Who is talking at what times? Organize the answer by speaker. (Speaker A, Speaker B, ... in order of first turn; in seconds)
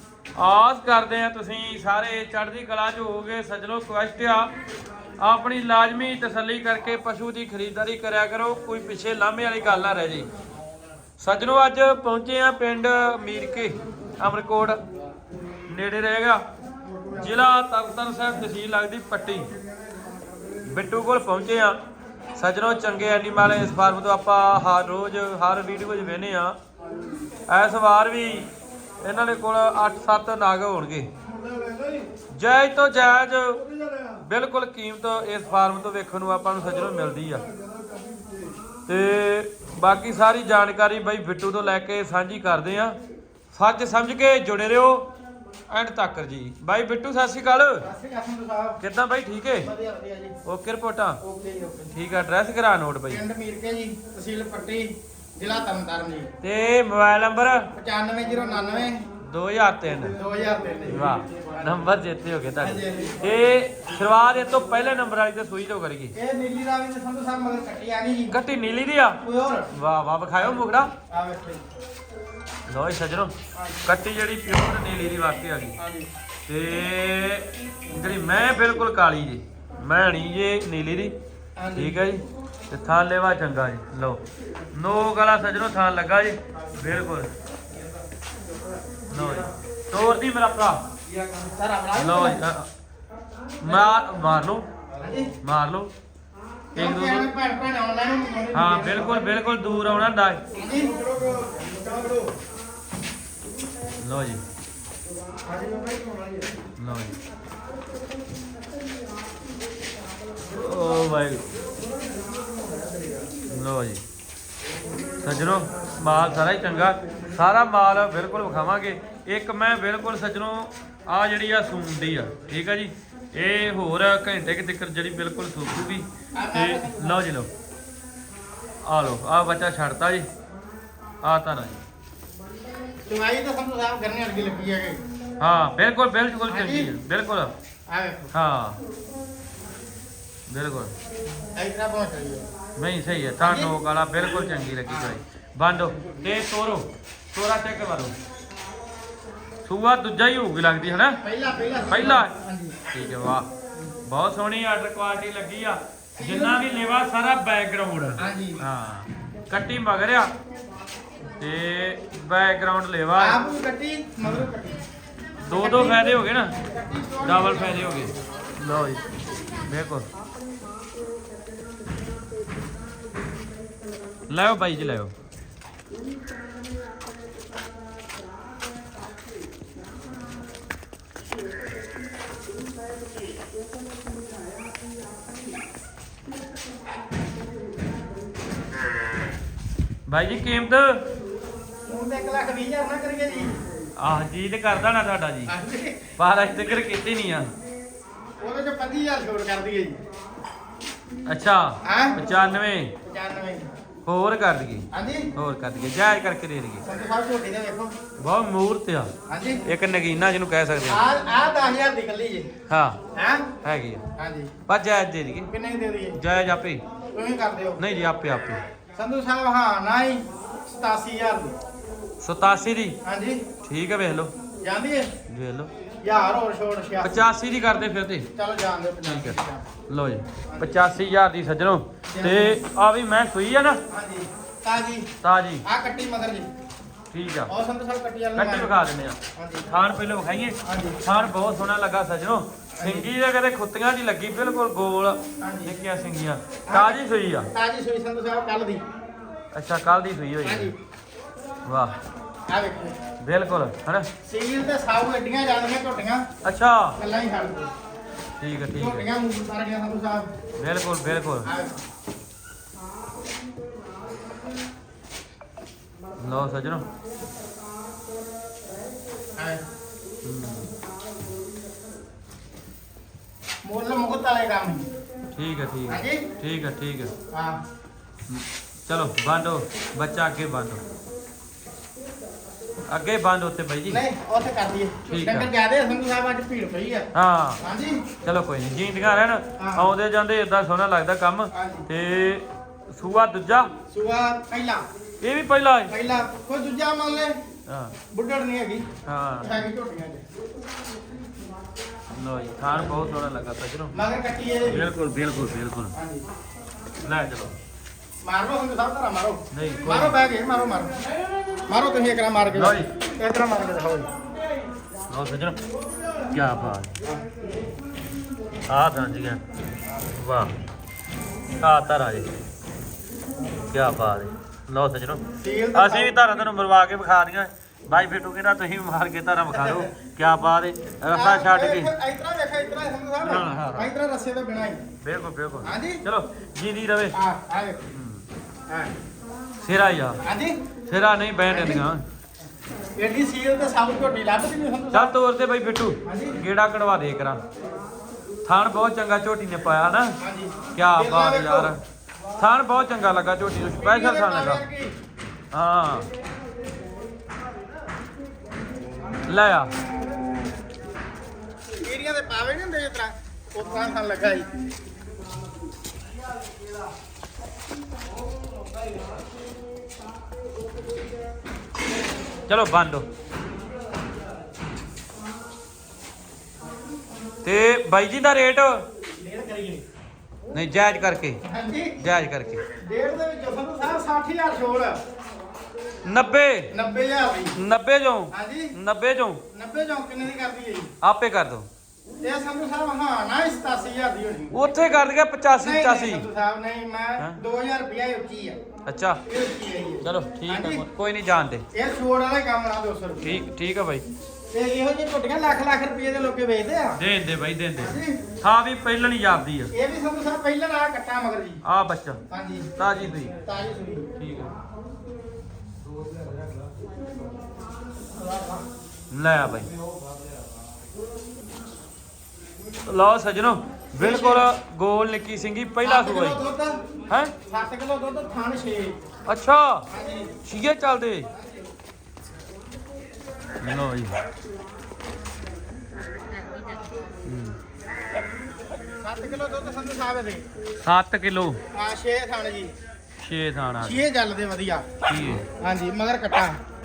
Speaker A: 0.4-4.5, 5.2-10.3, 11.2-14.8, 15.7-16.4, 17.1-19.5, 20.6-21.8, 22.4-26.6, 27.5-28.5, 29.0-31.1, 32.3-37.5, 38.9-43.0, 43.5-45.1, 45.7-47.9, 48.8-49.7, 50.5-51.2, 51.9-53.2, 56.4-57.7, 59.2-60.1, 60.9-66.1, 68.3-70.9, 72.7-75.8, 76.5-81.1, 81.7-84.2, 84.7-87.3, 89.1-90.8, 92.0-92.7, 93.6-94.7, 95.4-95.9, 96.8-97.3, 98.5-100.4, 104.0-104.4, 106.8-107.2, 110.5-111.5, 113.5-114.0, 115.2-127.5, 128.8-130.3, 131.2-131.8, 135.4-137.5, 138.3-138.8, 140.5-140.9, 142.8-148.2, 149.7-151.2, 151.9-152.3, 152.9-153.5, 154.1-160.3, 161.4-163.4, 165.4-166.6, 167.2-169.1, 169.7-170.1, 174.3-175.1, 190.1-191.1, 194.0-195.5, 196.2-197.5, 201.3-202.9, 204.1-206.8, 208.2-209.1, 209.6-211.1, 212.7-213.0, 213.6-214.0, 214.7-215.5, 216.2-216.8, 217.8-218.6, 222.2-223.0, 223.6-224.3, 225.3-225.7, 227.0-228.3, 229.1-233.8, 235.2-235.7, 237.1-237.5, 238.4-247.5, 249.5-250.7, 251.7-252.0, 253.2-254.1, 256.4-257.0, 258.4-259.1, 260.6-261.5, 266.2-266.9, 270.2-270.7, 275.4-277.1, 278.3-280.8, 282.9-284.0, 285.1-285.5, 287.1-287.6, 288.2-293.7, 295.2-295.9, 297.7-298.0, 299.1-299.6, 302.1-304.0, 304.7-305.9, 307.0-307.6, 309.5-310.2, 312.5-312.9, 315.1-315.6, 316.3-316.9, 318.7-319.4, 320.1-320.6, 321.6-322.3, 323.7-331.9, 333.2-333.9, 335.0-337.2, 337.9-338.3, 339.6-340.2, 340.9-342.0, 344.9-347.4, 348.5-350.2, 350.8-351.8, 352.4-354.6, 355.5-356.1, 359.2-359.7, 372.5-373.1, 377.4-378.9, 380.5-381.4, 382.0-382.6, 386.1-386.7, 387.6-389.4, 391.0-391.7, 394.5-396.3, 398.9-399.2, 400.0-401.6, 403.2-404.1, 407.0-409.7, 411.6-412.2, 412.8-413.4, 414.2-414.5, 419.1-419.7, 422.9-426.4, 429.3-429.9, 430.4-431.3, 433.6-434.1, 437.2-437.6, 440.8-441.6, 443.2-444.0, 445.0-445.5
Speaker B: 31.3-32.1, 33.6-34.1, 47.8-48.8, 49.6-50.4, 51.2-52.0, 53.1-56.3, 57.8-59.0, 60.0-61.8, 62.6-63.2, 66.2-68.4, 69.2-69.7, 71.1-71.6, 73.5-73.8, 75.8-76.1, 81.6-82.0, 91.4-92.4, 94.9-95.3, 96.8-99.3, 100.5-102.3, 105.5-106.5, 126.3-127.2, 133.1-135.0, 136.5-136.9, 137.9-138.3, 141.6-142.5, 143.4-143.8, 144.9-145.2, 151.2-152.8, 156.2-156.6, 158.2-158.6, 163.2-164.8, 165.6-168.0, 191.9-193.6, 195.5-196.1, 198.4-200.0, 201.8-202.2, 203.1-203.7, 204.9-205.3, 206.8-207.9, 209.3-209.6, 210.9-212.5, 213.1-213.5, 214.2-214.5, 215.5-216.2, 217.1-217.8, 218.9-221.6, 223.0-223.4, 224.6-225.1, 226.0-227.2, 228.4-229.7, 230.5-230.8, 232.1-232.6, 233.9-235.1, 235.7-236.5, 237.5-238.7, 239.4-239.7, 240.7-241.0, 242.8-243.1, 245.4-245.7, 246.7-247.0, 247.5-248.8, 250.4-250.8, 252.5-253.0, 254.2-256.3, 257.0-257.7, 258.7-260.3, 261.4-261.8, 273.6-274.9, 275.9-276.2, 277.3-277.6, 283.9-287.1, 287.6-288.0, 289.6-289.9, 291.5-291.9, 293.9-294.8, 295.9-297.4, 298.1-298.9, 299.4-300.2, 303.9-304.9, 305.9-306.3, 308.2-311.0, 311.7-314.1, 325.4-326.3, 329.5-329.9, 331.1-334.9, 335.6-336.0, 337.1-337.8, 340.2-340.6, 341.5-341.9, 343.0-345.1, 346.1-346.4, 350.2-351.7, 353.8-354.9, 361.8-364.5, 379.2-379.8, 381.4-382.0, 382.8-385.0, 386.7-387.6, 388.3-388.8, 389.5-390.9, 392.2-394.6, 395.6-398.6, 399.3-400.8, 401.7-403.4, 404.5-407.0, 407.8-408.2, 409.7-411.6, 412.3-412.7, 413.4-414.1, 418.2-418.6, 424.0-424.5, 425.8-426.8, 427.5-429.0, 429.9-430.4, 439.0-440.4, 441.7-442.7, 443.8-446.6